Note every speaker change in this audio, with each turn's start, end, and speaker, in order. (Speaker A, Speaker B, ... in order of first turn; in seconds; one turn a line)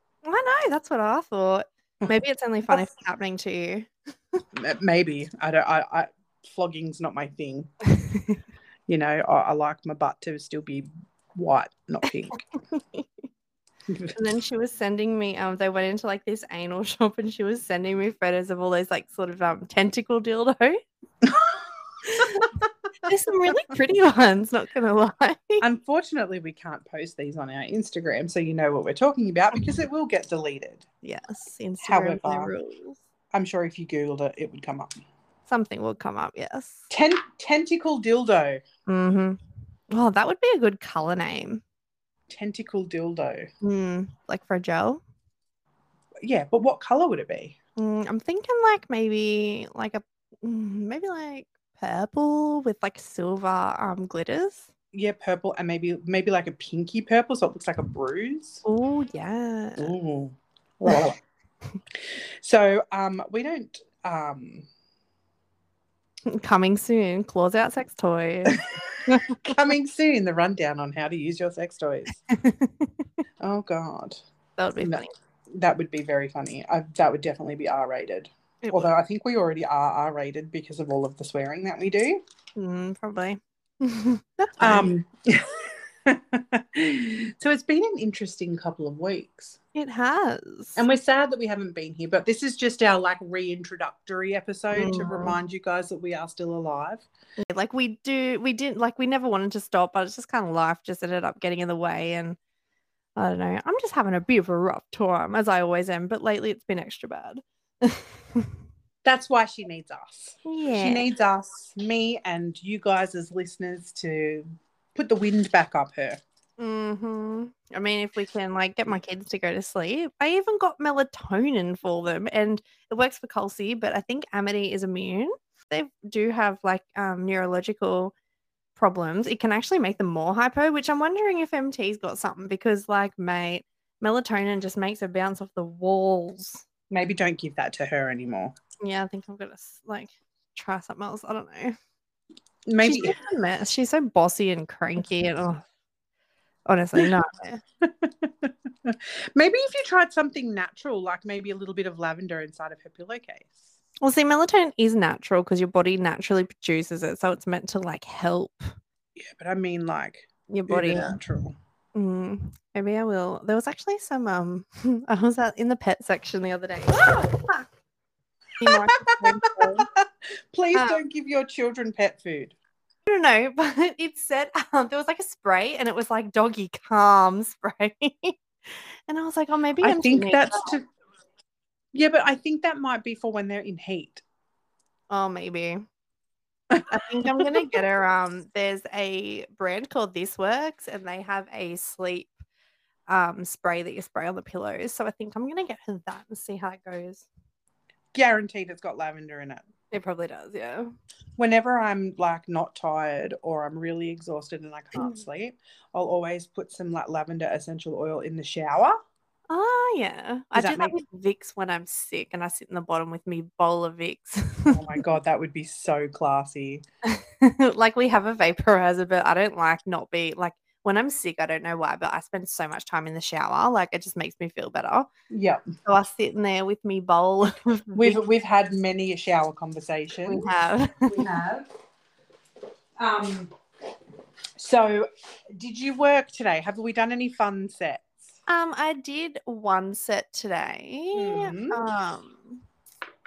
Speaker A: 0.2-4.4
Speaker B: 4.5-7.7
Speaker A: 8.0-8.4
Speaker B: 8.9-12.4
Speaker A: 12.3-13.1
Speaker B: 13.9-14.2
Speaker A: 14.1-20.8
Speaker B: 21.2-21.6
Speaker A: 22.0-25.6
Speaker B: 22.2-22.5
Speaker B: 25.6-30.9
Speaker A: 31.0-33.0
Speaker B: 31.8-32.5
Speaker B: 33.3-35.0
Speaker A: 35.5-36.9
Speaker B: 36.9-38.6
Speaker A: 38.9-39.4
Speaker A: 39.9-41.6
Speaker B: 42.3-43.5
Speaker A: 43.6-45.0
Speaker B: 46.2-47.6
Speaker A: 47.8-54.7
Speaker B: 54.9-58.6
Speaker A: 58.6-59.9
Speaker B: 59.8-61.2
Speaker B: 62.4-64.7
Speaker A: 66.3-69.6
Speaker B: 68.5-72.2
Speaker A: 72.3-72.9
Speaker B: 73.4-74.2
Speaker A: 74.6-75.1
Speaker B: 74.8-82.2
Speaker A: 78.6-78.9
Speaker A: 82.6-84.9
Speaker B: 84.6-89.6
Speaker A: 89.8-90.8
Speaker B: 90.8-97.1
Speaker A: 94.7-95.3
Speaker A: 97.5-102.4
Speaker A: 103.2-108.5
Speaker B: 109.0-116.2
Speaker A: 110.5-111.1
Speaker A: 116.6-128.1
Speaker A: 128.8-136.7
Speaker B: 136.9-138.5
Speaker A: 138.8-141.8
Speaker B: 142.7-143.2
Speaker A: 142.8-145.6
Speaker A: 146.7-147.6
Speaker B: 147.8-153.7
Speaker A: 154.0-158.7
Speaker B: 159.2-161.6
Speaker A: 160.5-161.2
Speaker A: 161.9-167.6
Speaker A: 168.6-169.9
Speaker B: 168.7-172.6
Speaker A: 170.7-171.0
Speaker A: 173.1-178.4
Speaker A: 179.1-180.8
Speaker B: 179.8-180.9
Speaker B: 181.9-184.2
Speaker A: 185.1-185.8
Speaker B: 186.7-187.8
Speaker A: 186.9-192.3
Speaker A: 193.1-197.3
Speaker B: 198.1-199.7
Speaker A: 199.9-200.9
Speaker B: 201.4-209.0
Speaker A: 209.5-215.0
Speaker B: 210.6-211.0
Speaker B: 214.7-216.8
Speaker A: 217.1-225.1
Speaker B: 225.3-225.6
Speaker A: 225.8-228.2
Speaker B: 228.0-230.4
Speaker A: 230.3-231.3
Speaker B: 231.1-231.7
Speaker B: 233.0-233.5
Speaker B: 234.6-238.1
Speaker A: 238.5-242.6
Speaker B: 241.1-241.8